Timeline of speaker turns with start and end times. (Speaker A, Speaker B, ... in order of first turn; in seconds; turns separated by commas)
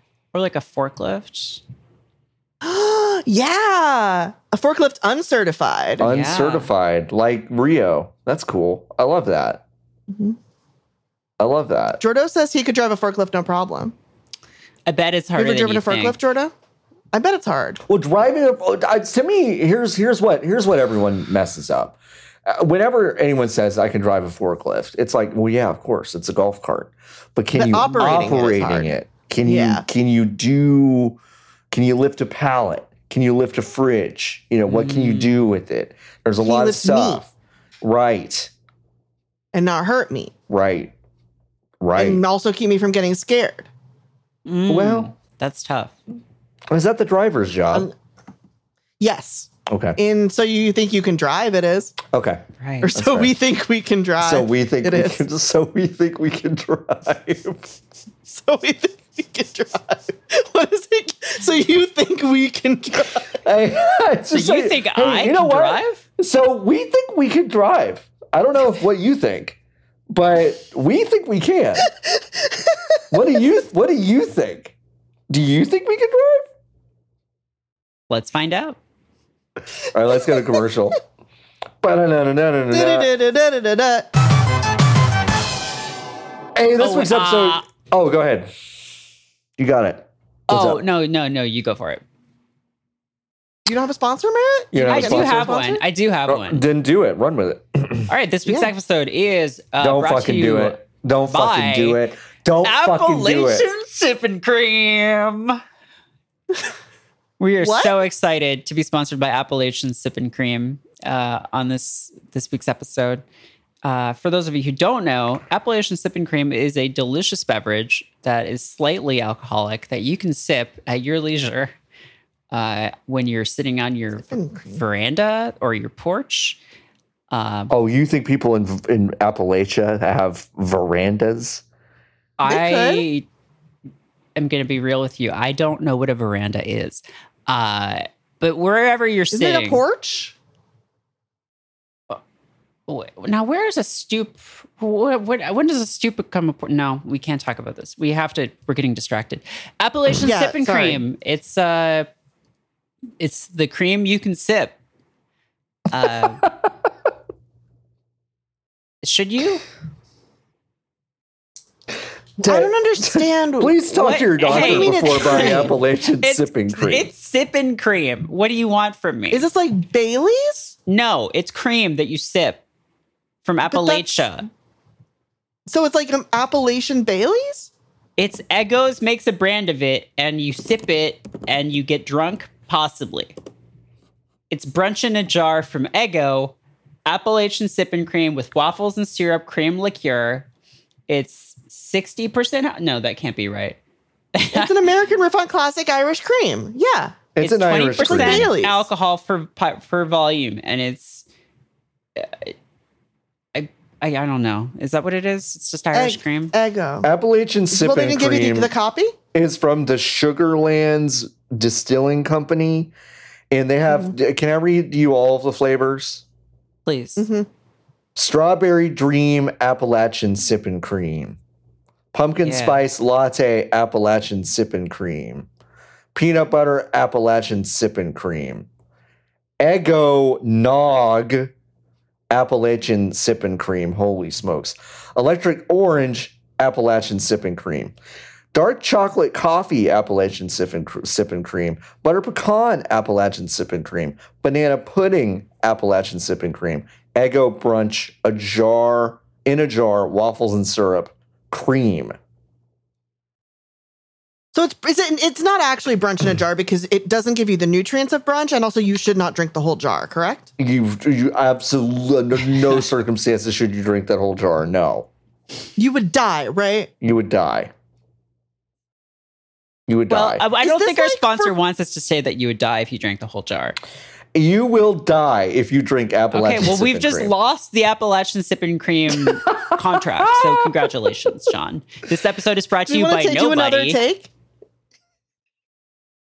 Speaker A: 0.3-1.6, Speaker B: 2.6-6.0, Speaker C: 6.0-9.6, Speaker A: 6.0-6.7, Speaker B: 10.1-10.4, Speaker C: 11.4-12.0, Speaker B: 12.0-13.9, Speaker A: 14.9-16.2, Speaker B: 15.4-16.5, Speaker B: 17.1-17.8, Speaker C: 17.9-31.2, Speaker B: 27.5-29.9, Speaker C: 31.7-37.3, Speaker A: 34.7-35.4, Speaker B: 36.4-37.2, Speaker C: 37.8-38.5, Speaker B: 39.5-40.3, Speaker C: 40.5-40.9, Speaker C: 41.8-42.2, Speaker B: 42.0-43.7, Speaker A: 44.5-46.0, Speaker C: 44.7-45.1, Speaker C: 46.7-47.9, Speaker B: 49.0-52.0, Speaker C: 49.7-50.0, Speaker C: 52.1-52.4, Speaker A: 52.6-52.9, Speaker B: 52.8-55.2, Speaker C: 52.9-53.3, Speaker C: 54.2-57.7, Speaker B: 58.3-63.4, Speaker C: 63.4-69.6, Speaker A: 64.3-66.0, Speaker C: 70.1-71.9, Speaker C: 73.1-74.7, Speaker C: 75.3-76.5, Speaker A: 78.1-78.8, Speaker C: 79.9-81.0, Speaker C: 81.8-83.1, Speaker B: 82.7-84.1, Speaker C: 86.6-88.5, Speaker A: 86.8-87.7, Speaker C: 89.6-90.8, Speaker A: 90.5-92.0, Speaker B: 93.7-95.8, Speaker C: 94.7-95.5, Speaker A: 94.9-96.6, Speaker C: 96.3-98.1, Speaker A: 98.1-102.0, Speaker B: 98.5-98.7, Speaker C: 99.8-103.7, Speaker A: 102.6-105.6, Speaker A: 107.4-113.2, Speaker B: 107.6-108.0, Speaker A: 113.8-121.7, Speaker A: 122.5-126.6, Speaker B: 124.3-124.8, Speaker A: 127.3-127.7, Speaker C: 127.7-131.6, Speaker A: 132.4-133.3, Speaker B: 132.5-133.1, Speaker A: 134.4-139.8, Speaker B: 139.3-140.3, Speaker A: 142.9-152.1, Speaker B: 150.2-151.0, Speaker A: 153.2-154.8, Speaker A: 155.9-156.4, Speaker A: 159.0-159.6, Speaker B: 162.4-165.8, Speaker C: 162.4-167.1, Speaker A: 163.9-169.4, Speaker B: 169.3-170.8, Speaker A: 170.9-172.6, Speaker A: 173.4-174.5, Speaker B: 173.7-174.3, Speaker B: 175.7-177.7, Speaker A: 178.2-183.3, Speaker A: 184.5-190.5, Speaker A: 191.1-193.8, Speaker A: 194.3-194.8, Speaker B: 194.5-197.2, Speaker C: 197.4-198.5, Speaker A: 197.4-201.2, Speaker B: 198.0-198.9, Speaker A: 202.2-202.5, Speaker A: 203.6-206.5, Speaker B: 205.9-207.1, Speaker C: 207.0-208.7, Speaker B: 207.7-209.2, Speaker C: 209.3-212.9, Speaker C: 213.5-216.2, Speaker A: 216.9-217.3, Speaker B: 217.2-217.5, Speaker C: 218.2-221.4, Speaker C: 222.1-225.5, Speaker A: 222.4-222.8, Speaker C: 226.1-228.7, Speaker C: 229.6-231.5, Speaker C: 232.3-237.9, Speaker C: 238.5-252.2, Speaker B: 254.6-260.5, Speaker C: 260.6-265.1, Speaker B: 265.8-266.9, Speaker C: 267.0-267.7, Speaker C: 269.9-270.4, Speaker A: 270.1-273.8, Speaker B: 270.6-271.5, Speaker C: 274.3-277.3, Speaker A: 276.3-284.0, Speaker C: 279.1-280.9, Speaker B: 282.9-284.3